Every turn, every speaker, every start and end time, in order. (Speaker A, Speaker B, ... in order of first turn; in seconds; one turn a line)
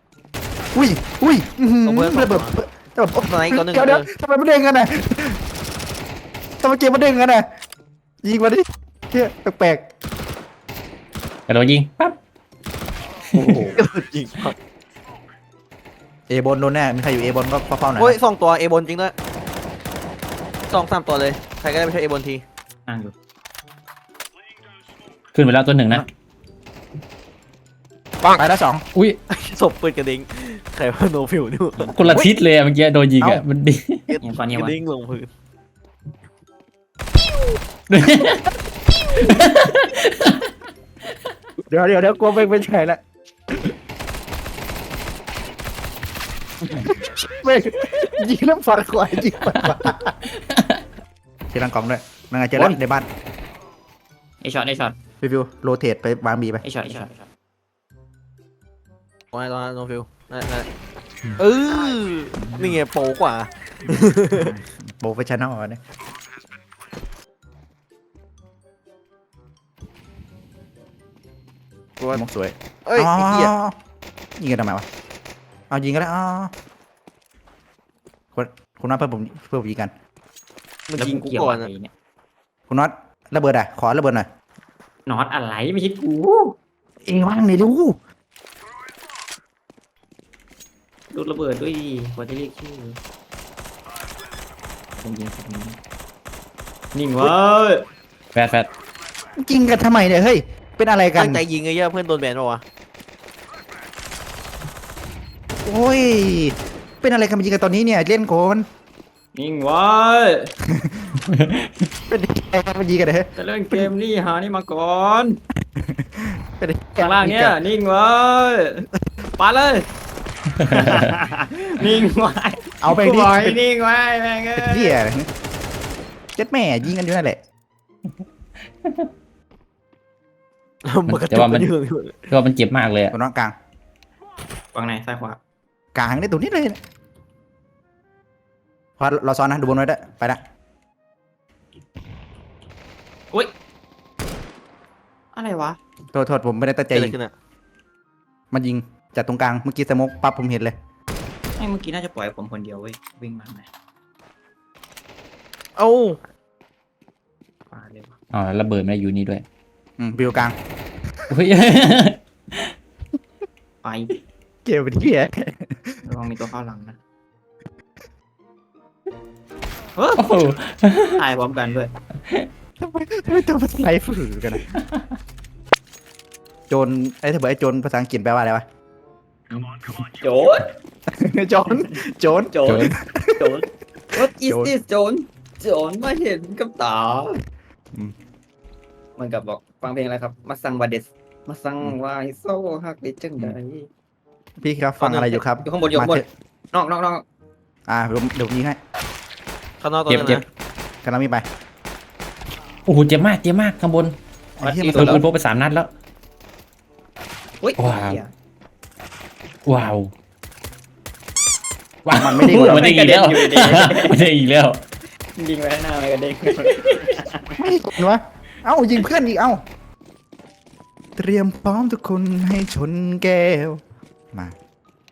Speaker A: 0.7-5.4
Speaker B: 1.8-2.5
Speaker B: 3.2-4.1
Speaker A: 6.6-7.5
Speaker A: 8.2-9.9
Speaker C: 11.5-12.2
Speaker D: 13.3-13.8
Speaker B: 13.8-14.5
Speaker A: 16.3-18.2
Speaker B: 18.0-19.1
Speaker B: 20.7-22.4
Speaker D: 22.9-23.1
Speaker C: 25.3-26.1
Speaker A: 28.4-28.8
Speaker B: 29.3-32.1
Speaker C: 31.9-34.0
Speaker B: 34.1-35.3
Speaker D: 34.2-34.8
Speaker C: 37.9-38.4
Speaker C: 39.2-40.4
Speaker A: 41.7-43.0
Speaker A: 46.7-50.1
Speaker A: 51.5-53.1
Speaker D: 54.4-55.0
Speaker A: 55.2-56.6
Speaker D: 56.6-57.3
Speaker B: 59.3-60.7
Speaker B: 61.4-64.5
Speaker A: 64.3-65.8
Speaker A: 72.1-73.7
Speaker B: 72.8-73.5
Speaker A: 74.4-74.8
Speaker A: 75.7-76.5
Speaker A: 78.3-79.9
Speaker B: 80.9-81.7
Speaker D: 81.0-81.9
Speaker A: 82.7-84.3
Speaker D: 85.0-86.5
Speaker A: 87.0-88.0
Speaker D: 91.1-93.0
Speaker D: 95.0-95.8
Speaker D: 96.9-97.8
Speaker C: 98.3-98.7
Speaker A: 99.4-101.4
Speaker B: 101.1-102.6
Speaker A: 105.6-108.7
Speaker D: 109.3-110.5
Speaker A: 110.7-111.1
Speaker C: 111.3-111.5
Speaker A: 112.1-113.9
Speaker D: 113.3-115.4
Speaker A: 115.8-117.5
Speaker D: 117.0-118.8
Speaker D: 119.4-119.9
Speaker C: 120.6-121.0
Speaker D: 120.7-125.0
Speaker A: 122.8-123.6
Speaker A: 124.6-125.3
Speaker A: 126.3-127.4
Speaker B: 130.8-132.3
Speaker C: 131.1-131.7
Speaker C: 132.3-133.1
Speaker A: 133.1-133.5
Speaker D: 134.7-135.4
Speaker A: 135.9-136.8
Speaker A: 139.0-140.4
Speaker D: 145.3-145.8
Speaker A: 146.1-147.2
Speaker B: 146.9-147.3
Speaker A: 148.5-150.7
Speaker D: 151.6-153.7
Speaker B: 155.8-156.2
Speaker D: 157.7-158.2
Speaker C: 158.3-159.4
Speaker A: 160.0-160.6
Speaker C: 161.3-162.6
Speaker D: 163.8-164.1
Speaker A: 164.7-166.0
Speaker D: 166.0-167.0
Speaker D: 169.9-170.2
Speaker C: 170.2-171.2
Speaker D: 171.1-171.9
Speaker A: 172.8-174.6
Speaker C: 174.7-175.0
Speaker A: 176.7-178.6
Speaker D: 179.5-180.7
Speaker A: 181.1-183.5
Speaker D: 182.5-187.4
Speaker A: 184.2-184.7
Speaker D: 189.2-193.9
Speaker A: 194.6-196.3
Speaker B: 195.0-195.4
Speaker D: 195.6-197.2
Speaker A: 197.9-198.8
Speaker B: 199.8-200.4
Speaker C: 200.1-200.4
Speaker A: 201.0-201.4
Speaker C: 202.8-204.2
Speaker A: 204.6-205.2
Speaker D: 204.6-205.2
Speaker C: 204.9-205.9
Speaker D: 207.6-208.3
Speaker C: 207.8-208.2
Speaker C: 209.7-210.1
Speaker C: 212.0-214.8
Speaker A: 212.2-212.9
Speaker D: 212.7-214.3
Speaker D: 215.3-217.4
Speaker A: 217.5-219.6
Speaker A: 221.2-223.8